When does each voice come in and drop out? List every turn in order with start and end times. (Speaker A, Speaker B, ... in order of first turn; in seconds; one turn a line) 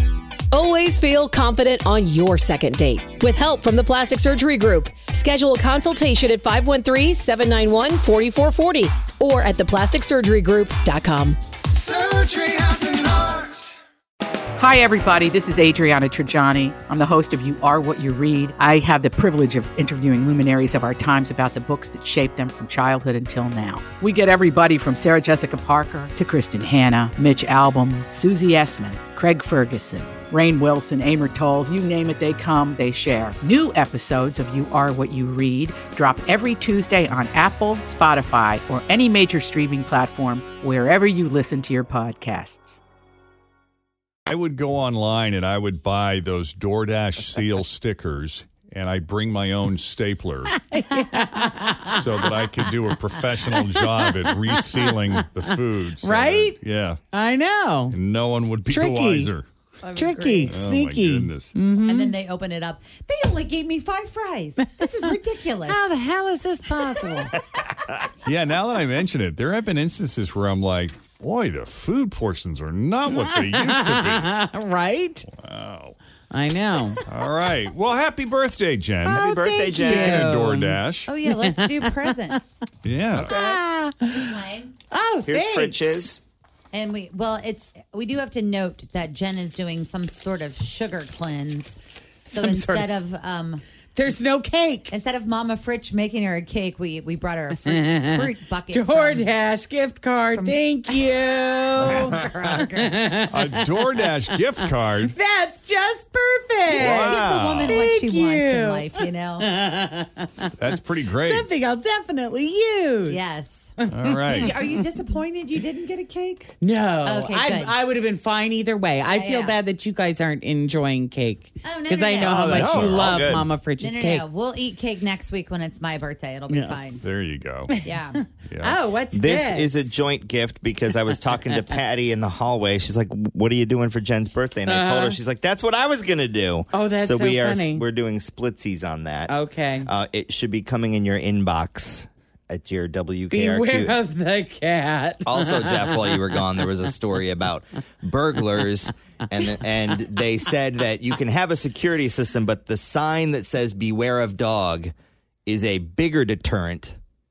Speaker A: 0.5-11.5
Speaker B: 14.6-42.8
Speaker C: 44.3-50.5
Speaker D: 50.7-52.3
Speaker C: 52.0-57.0
Speaker D: 53.4-56.6
Speaker D: 57.1-58.0
Speaker C: 57.9-59.5
Speaker D: 58.7-59.3
Speaker E: 59.8-60.7
Speaker D: 59.9-62.2
Speaker C: 60.5-61.6
Speaker E: 61.9-65.8
Speaker D: 64.8-65.1
Speaker D: 65.6-67.4
Speaker C: 68.2-74.3
Speaker D: 73.1-75.3
Speaker C: 75.3-76.0
Speaker D: 76.3-77.0
Speaker C: 77.1-79.3
Speaker D: 79.1-80.8
Speaker F: 79.2-80.3
Speaker C: 80.0-81.1
Speaker E: 81.1-82.4
Speaker D: 81.4-82.1
Speaker C: 82.8-83.4
Speaker D: 83.2-84.3
Speaker F: 83.3-83.6
Speaker E: 84.1-84.7
Speaker D: 84.9-86.1
Speaker F: 85.3-86.2
Speaker E: 86.7-93.6
Speaker D: 92.3-92.9
Speaker D: 94.0-94.9
Speaker E: 94.9-99.3
Speaker D: 97.8-103.8
Speaker E: 100.3-102.9
Speaker C: 101.8-102.4
Speaker C: 103.3-105.1
Speaker D: 105.1-110.5
Speaker C: 106.7-107.8
Speaker E: 106.7-109.5
Speaker C: 110.6-111.5
Speaker D: 111.2-113.2
Speaker E: 113.1-113.8
Speaker D: 113.8-114.7
Speaker C: 113.9-114.6
Speaker E: 114.3-117.7
Speaker D: 116.6-124.3
Speaker E: 119.1-119.6
Speaker E: 121.6-122.8
Speaker C: 122.3-123.4
Speaker F: 122.5-123.5
Speaker E: 123.8-127.1
Speaker D: 126.5-127.0
Speaker C: 127.0-127.8
Speaker D: 127.7-129.9
Speaker E: 127.8-128.2
Speaker C: 128.5-128.8
Speaker F: 129.1-144.0
Speaker D: 134.7-135.2
Speaker D: 136.7-137.9
Speaker D: 139.3-139.9
Speaker D: 143.3-146.5
Speaker F: 145.3-154.9
Speaker F: 155.5-157.0